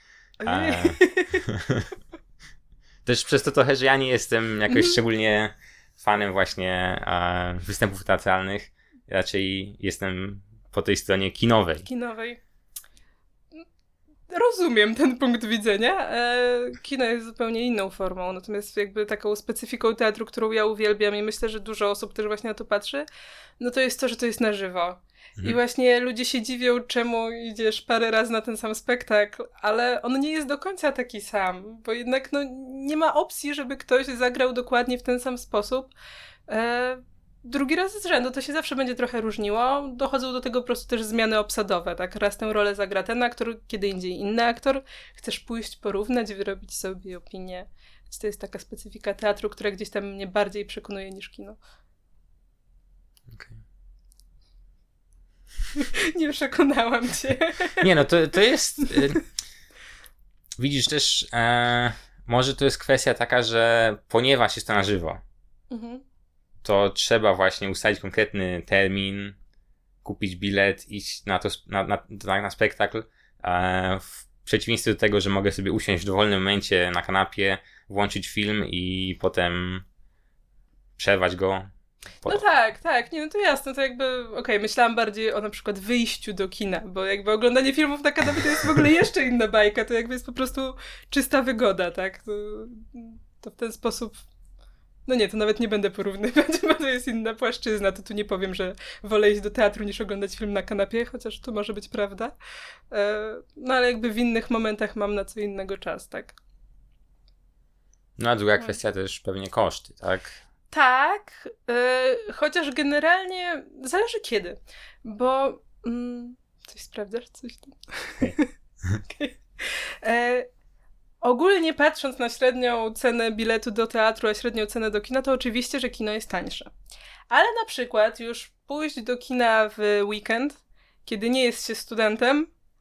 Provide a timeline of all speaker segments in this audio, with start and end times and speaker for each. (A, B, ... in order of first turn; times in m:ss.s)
0:00.4-0:01.4 A
0:00.4-0:01.8 B
0:03.0-0:11.9 B
0:04.7-0:05.0 A
0:11.8-0:12.4 A
0:14.3-0:23.1 A
0:23.6-0:35.9 A
0:36.5-0:51.6 A
0:53.3-0:53.6 B
0:55.8-0:57.8 A
0:57.8-0:59.2 B
1:00.6-1:05.2 B
1:05.7-1:06.0 A
1:06.6-1:09.4 B
1:10.0-1:19.8 B
1:21.0-1:21.7 B
1:22.3-1:34.2 A
1:35.1-1:42.4 A
1:42.9-1:46.4 A
1:48.2-1:50.4 B
1:50.7-1:58.5 A
1:59.1-2:00.5 A
2:01.2-2:06.7 A
2:07.3-2:12.5 A